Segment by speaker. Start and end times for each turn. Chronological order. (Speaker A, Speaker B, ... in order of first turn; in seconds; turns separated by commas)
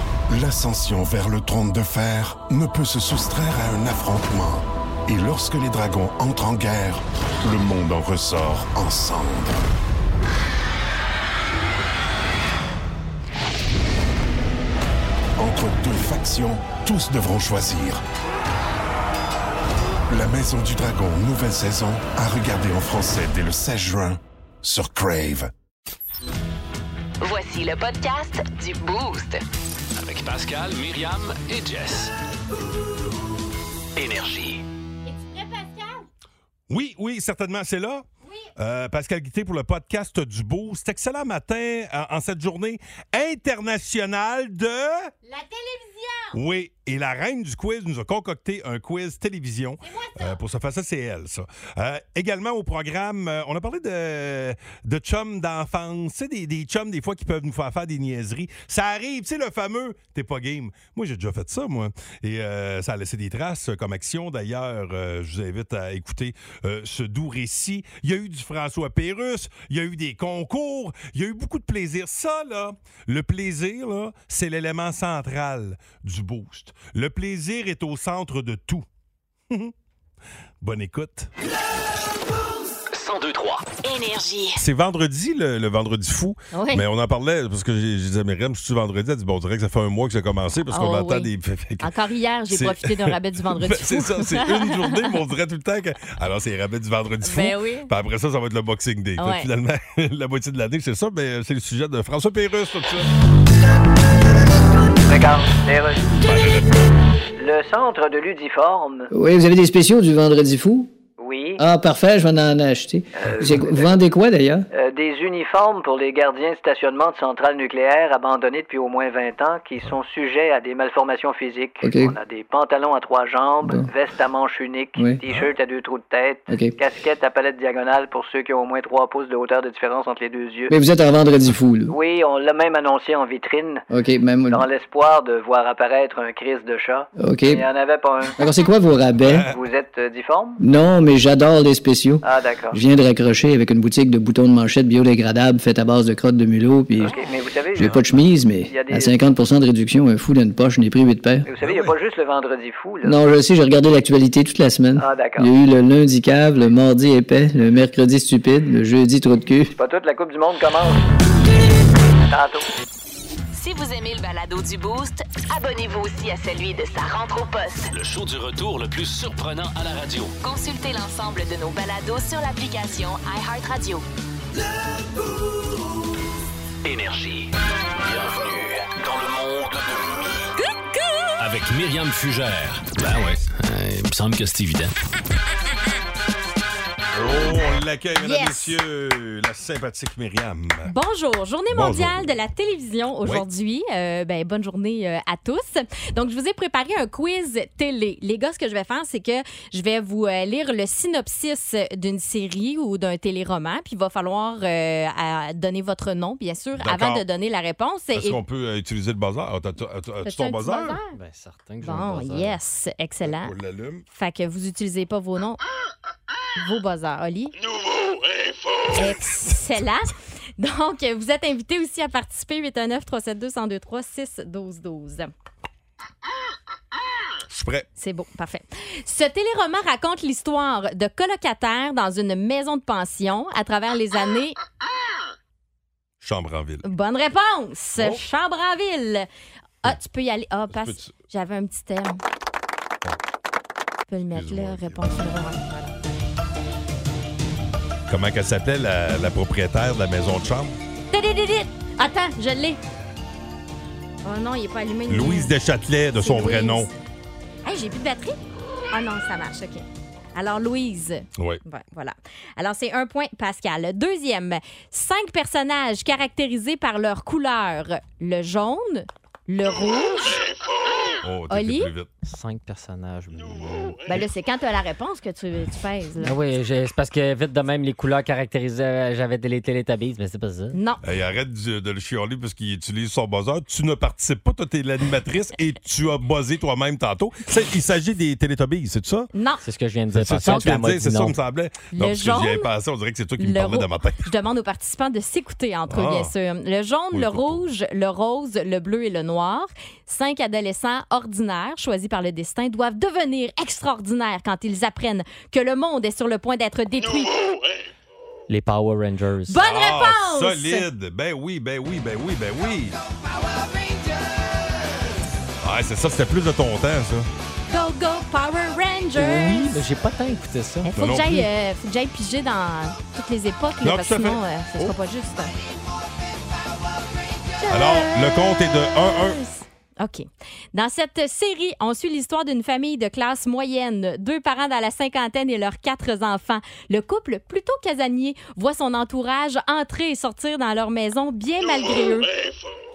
Speaker A: 0.3-9.6, Speaker A: 15.4-18.0, Speaker A: 20.1-25.5, Speaker B: 27.2-29.4, Speaker C: 30.0-32.1, Speaker C: 34.0-34.6, Speaker D: 35.0-36.1, Speaker E: 36.7-38.0, Speaker D: 38.2-38.5, Speaker E: 38.6-45.1, Speaker D: 45.2-46.4, Speaker E: 46.3-78.8, Speaker D: 49.8-50.4, Speaker E: 80.6-81.3, Speaker C: 82.9-83.7, Speaker B: 83.8-84.6, Speaker E: 84.6-91.9, Speaker D: 86.5-86.8, Speaker D: 90.7-91.3, Speaker D: 91.8-95.1, Speaker E: 92.5-103.1, Speaker D: 97.2-97.9, Speaker D: 99.2-99.5, Speaker F: 105.1-106.0, Speaker E: 106.2-106.7, Speaker F: 107.4-109.1, Speaker G: 109.1-110.9, Speaker F: 111.2-111.6, Speaker G: 111.6-114.7, Speaker F: 113.2-113.8, Speaker F: 114.7-130.7, Speaker G: 121.8-122.1, Speaker G: 125.0-125.2, Speaker G: 126.5-126.8, Speaker G: 130.7-131.9, Speaker F: 131.9-133.8, Speaker G: 133.9-134.6, Speaker F: 134.5-138.4, Speaker G: 137.2-137.6, Speaker G: 138.4-139.5, Speaker E: 139.2-139.5, Speaker F: 139.5-140.6, Speaker G: 140.6-147.2, Speaker F: 142.2-142.8, Speaker F: 147.0-148.1, Speaker G: 147.7-151.5, Speaker F: 148.7-149.2, Speaker F: 151.5-153.2, Speaker E: 151.6-152.0, Speaker G: 153.0-159.8, Speaker F: 155.0-155.5, Speaker F: 159.8-161.0, Speaker F: 162.3-162.7, Speaker B: 163.5-167.9, Speaker C: 167.9-170.3, Speaker B: 170.4-174.1, Speaker C: 176.8-180.5, Speaker C: 181.4-184.9, Speaker E: 187.1-190.9, Speaker D: 188.2-188.8, Speaker D: 190.9-208.4, Speaker E: 191.7-192.3, Speaker E: 206.8-207.2, Speaker E: 208.1-211.0, Speaker D: 210.2-211.1, Speaker H: 211.1-212.6, Speaker D: 211.8-213.5, Speaker E: 213.2-214.0, Speaker D: 214.1-215.6, Speaker D: 216.6-217.6, Speaker D: 218.9-225.3, Speaker E: 227.5-227.9, Speaker D: 228.0-234.6, Speaker E: 236.2-236.8, Speaker D: 236.8-239.3, Speaker E: 238.0-238.2, Speaker D: 239.8-242.2, Speaker E: 240.7-241.1, Speaker D: 244.1-245.9, Speaker E: 244.3-245.2, Speaker E: 248.1-250.8, Speaker D: 251.1-252.8, Speaker D: 254.2-255.5, Speaker E: 255.1-256.9, Speaker D: 256.2-256.9, Speaker D: 257.6-258.4, Speaker D: 258.9-270.4, Speaker E: 271.2-272.1, Speaker D: 271.5-271.9, Speaker H: 272.2-274.2, Speaker D: 274.1-276.4, Speaker H: 276.2-280.8, Speaker D: 280.7-281.0, Speaker E: 281.0-289.3, Speaker D: 289.3-289.6, Speaker H: 289.6-291.4, Speaker E: 290.1-294.2, Speaker D: 291.9-292.7, Speaker D: 293.4-307.4, Speaker E: 295.9-296.3, Speaker E: 297.1-297.7, Speaker H: 308.5-309.6, Speaker D: 309.5-310.9, Speaker E: 309.6-313.0, Speaker E: 315.6-317.3, Speaker D: 317.7-319.8, Speaker H: 319.2-320.9, Speaker D: 320.9-325.5, Speaker E: 320.9-321.5, Speaker E: 323.8-324.9, Speaker D: 327.6-342.3, Speaker E: 327.7-329.4